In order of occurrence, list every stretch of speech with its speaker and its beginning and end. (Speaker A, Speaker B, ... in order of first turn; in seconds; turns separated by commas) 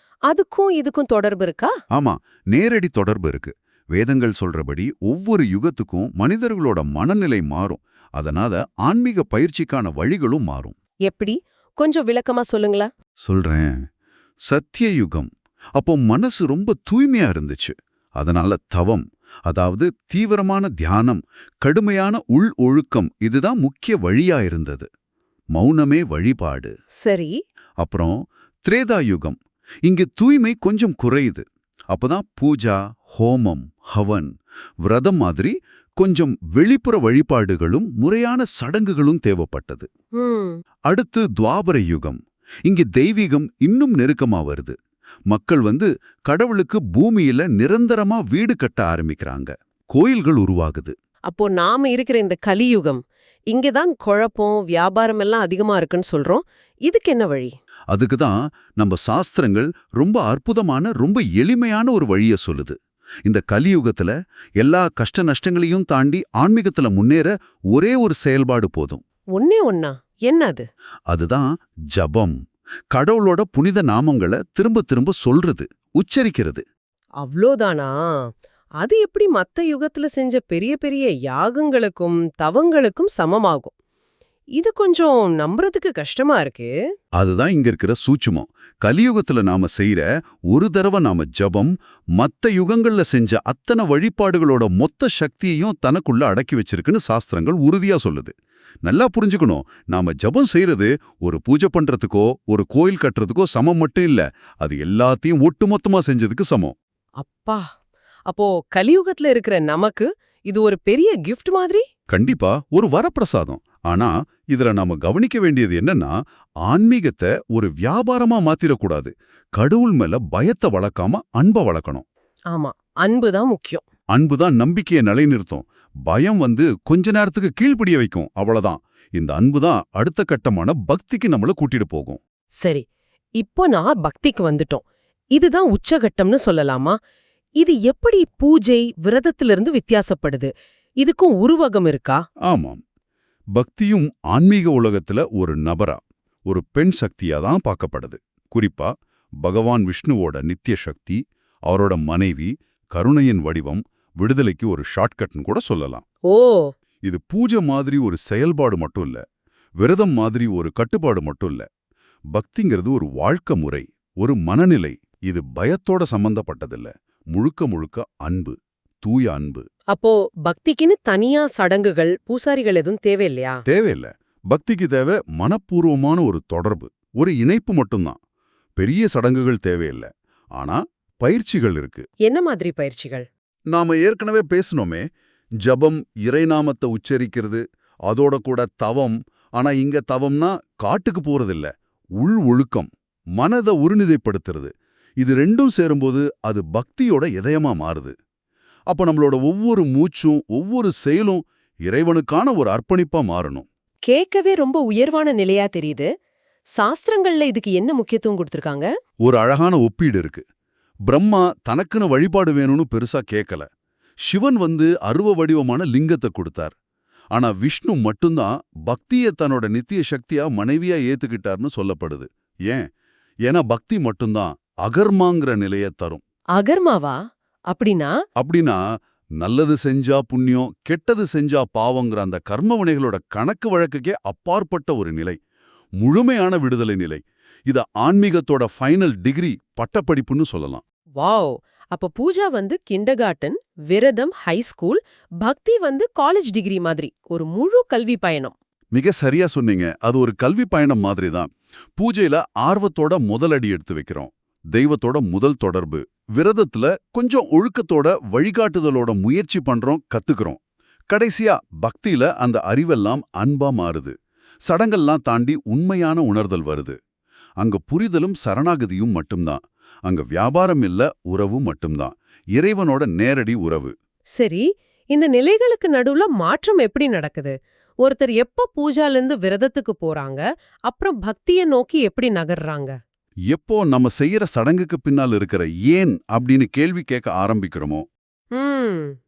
Speaker A: 0.3-1.7, Speaker B: 1.9-10.7, Speaker A: 11.1-12.9, Speaker B: 13.2-13.7, Speaker B: 14.4-24.9, Speaker B: 25.5-26.7, Speaker A: 27.0-27.4, Speaker B: 27.8-34.3, Speaker B: 34.8-39.9, Speaker A: 40.2-40.6, Speaker B: 40.9-44.7, Speaker B: 45.3-50.9, Speaker A: 51.3-57.5, Speaker B: 57.9-69.0, Speaker A: 69.3-70.6, Speaker B: 71.1-72.3, Speaker B: 72.9-76.6, Speaker A: 77.2-83.7, Speaker A: 84.6-86.7, Speaker B: 87.2-98.3, Speaker B: 98.8-106.7, Speaker A: 107.2-107.6, Speaker A: 108.3-111.8, Speaker B: 112.1-116.1, Speaker B: 116.6-122.0, Speaker A: 122.5-123.8, Speaker B: 124.1-132.2, Speaker A: 133.4-134.8, Speaker A: 135.3-137.0, Speaker A: 137.6-140.5, Speaker A: 141.0-142.2, Speaker B: 142.5-142.8, Speaker B: 143.5-148.9, Speaker B: 149.4-156.0, Speaker A: 156.3-156.7, Speaker B: 157.0-159.2, Speaker B: 159.8-161.6, Speaker B: 162.3-169.6, Speaker A: 169.9-173.6, Speaker B: 173.7-178.2, Speaker B: 178.8-182.1, Speaker A: 182.2-183.2, Speaker B: 183.7-185.0, Speaker B: 185.6-198.1, Speaker B: 198.9-203.7, Speaker A: 204.1-206.1, Speaker A: 206.8-208.9, Speaker B: 209.2-210.4, Speaker B: 211.1-213.7, Speaker B: 214.2-216.7, Speaker B: 217.3-222.8, Speaker B: 223.4-226.2, Speaker A: 226.6-227.2, Speaker A: 227.7-228.1, Speaker B: 228.4-228.8, Speaker B: 229.4-235.4, Speaker B: 236.0-240.8, Speaker A: 241.2-248.5, Speaker B: 248.9-260.6, Speaker B: 261.1-264.1, Speaker B: 264.6-266.9, Speaker B: 267.6-273.9, Speaker A: 274.4-282.9, Speaker B: 283.5-288.1, Speaker A: 288.5-289.2